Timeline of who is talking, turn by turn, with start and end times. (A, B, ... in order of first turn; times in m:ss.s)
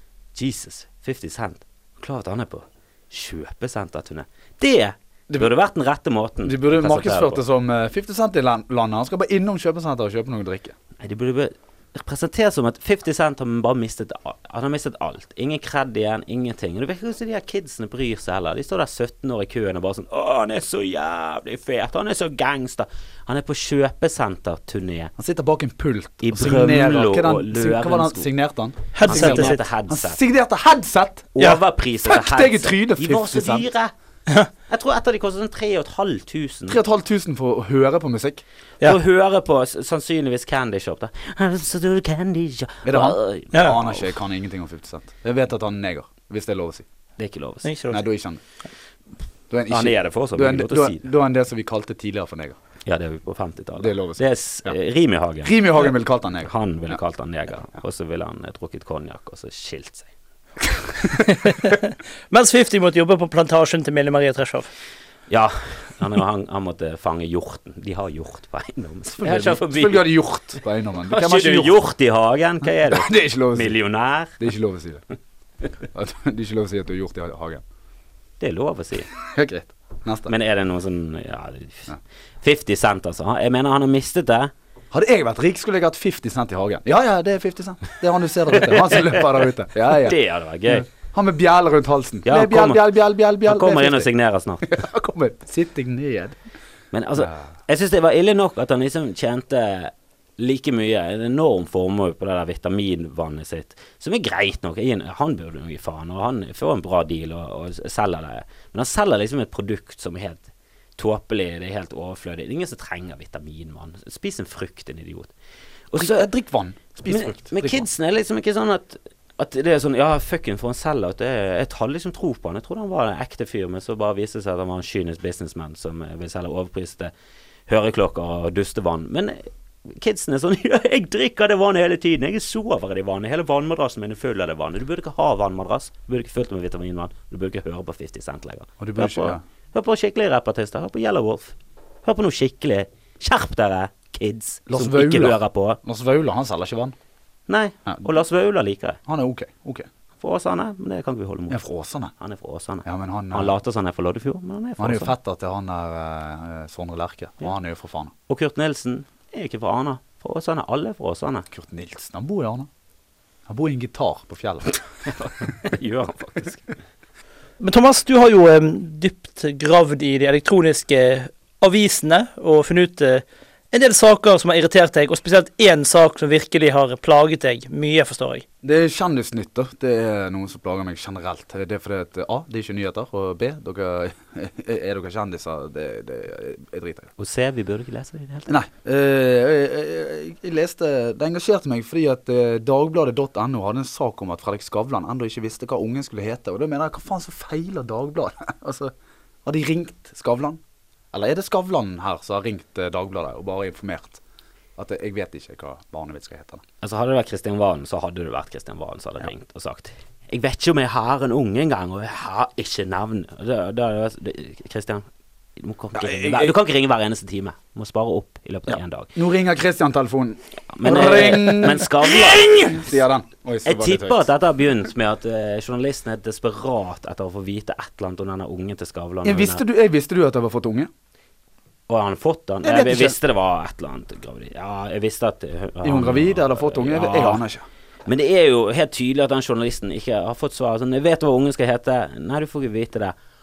0:00.4-0:07.4 A
0:06.4-0:10.8 B
0:11.0-0:25.1 A
0:25.2-0:33.7 B
0:26.2-0:28.3 A
0:29.0-0:29.6 C
0:29.0-0:30.2 A
0:31.4-0:33.9 A
0:34.7-0:36.8 A
0:36.7-0:38.4 B
0:38.8-0:44.1 A
0:42.8-0:46.8 B
0:47.2-0:47.7 A
0:47.6-0:48.0 C
0:47.9-0:48.4 B
0:49.5-0:52.6 B
0:49.7-0:51.0 A
0:52.9-0:55.9 A
0:53.8-0:54.8 B
0:55.4-0:57.0 B
0:56.4-1:00.1 A
1:01.2-1:04.7 C
1:05.3-1:10.1 A
1:09.2-1:11.8 B
1:11.1-1:14.4 A
1:12.8-1:13.8 B
1:14.4-1:15.0 B
1:15.9-1:17.6 B
1:18.4-1:19.1 A
1:19.2-1:20.3 B
1:20.3-1:24.5 A
1:24.9-1:34.1 B
1:28.9-1:29.2 A
1:29.9-1:30.9 A
1:32.3-1:32.8 A
1:33.4-1:34.8 A
1:34.6-1:36.4 B
1:36.9-1:50.5 A
1:51.0-1:55.3 A
1:55.9-1:56.3 A
1:56.0-1:57.9 B
1:57.1-2:07.1 A
2:07.7-2:25.8 A
2:18.8-2:19.4 B
2:24.7-2:27.0 B
2:27.5-2:29.0 A
2:29.1-2:29.9 B
2:30.2-2:31.6 A
2:31.5-2:32.1 B
2:32.2-2:35.1 A
2:32.8-2:33.5 B
2:34.8-2:38.1 B
2:38.3-2:41.5 A
2:41.5-2:42.7 B
2:43.5-2:44.8 B
2:45.1-2:46.7 A
2:47.6-2:58.4 C
2:58.6-3:07.1 B
3:07.2-3:08.5 A
3:08.5-3:18.9 B
3:19.4-3:20.6 B
3:21.1-3:24.2 B
3:24.8-3:26.6 B
3:26.8-3:35.1 A
3:35.6-3:39.1 A
3:36.0-3:36.6 B
3:38.7-3:44.3 B
3:40.7-3:42.8 A
3:43.6-3:49.6 A
3:49.2-3:50.9 B
3:51.9-3:57.4 A
3:52.6-3:53.2 B
3:55.8-3:57.6 B
3:58.1-4:03.2 A